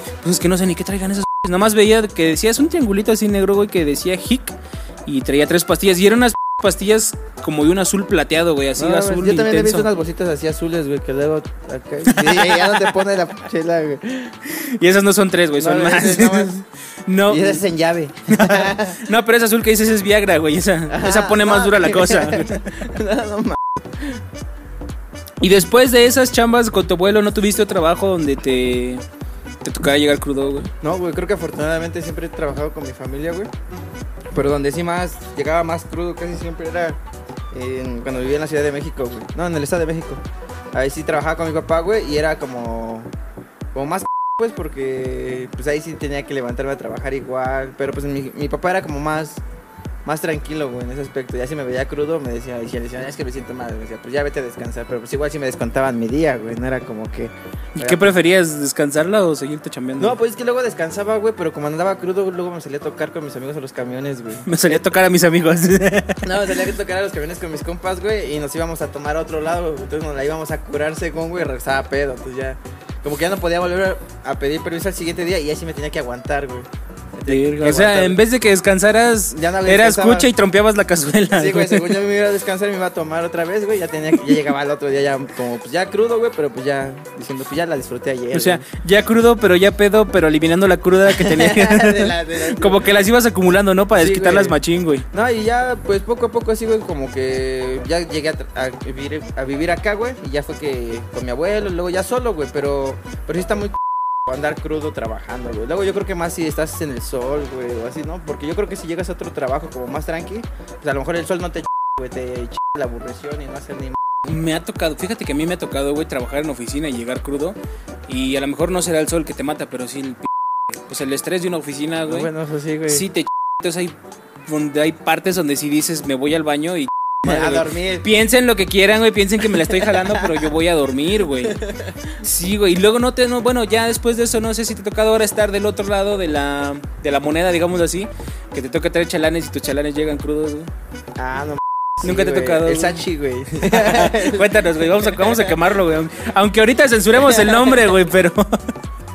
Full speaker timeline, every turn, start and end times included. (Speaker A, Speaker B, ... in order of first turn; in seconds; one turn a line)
Speaker A: 0.2-9.9
Speaker B: 8.8-14.3
Speaker A: 12.1-12.9
Speaker A: 14.5-17.6
Speaker B: 15.6-16.6
Speaker B: 17.3-19.0
Speaker A: 18.3-22.7
Speaker B: 20.9-24.2
Speaker A: 25.4-29.0
Speaker A: 29.6-30.7
Speaker B: 30.8-33.5
Speaker B: 34.3-37.0
Speaker B: 37.5-40.2
Speaker B: 40.7-43.1
Speaker B: 43.7-49.4
Speaker B: 50.0-58.1
Speaker A: 57.8-60.2
Speaker B: 60.0-64.8
Speaker A: 64.5-66.5
Speaker B: 66.2-78.2
Speaker A: 77.3-82.0
Speaker B: 79.3-80.3
Speaker B: 81.3-88.6
Speaker A: 88.3-95.0
Speaker B: 91.1-92.9
Speaker B: 94.0-94.6
Speaker B: 95.1-114.3
Speaker A: 114.3-122.3
Speaker B: 122.0-123.0
Speaker A: 122.9-123.9
Speaker A: 124.5-131.6
Speaker B: 127.2-128.1
Speaker B: 129.7-130.4
Speaker B: 131.4-132.2
Speaker A: 132.2-140.7
Speaker B: 141.2-145.5
Speaker A: 142.0-143.1
Speaker A: 143.6-148.7
Speaker B: 147.2-147.8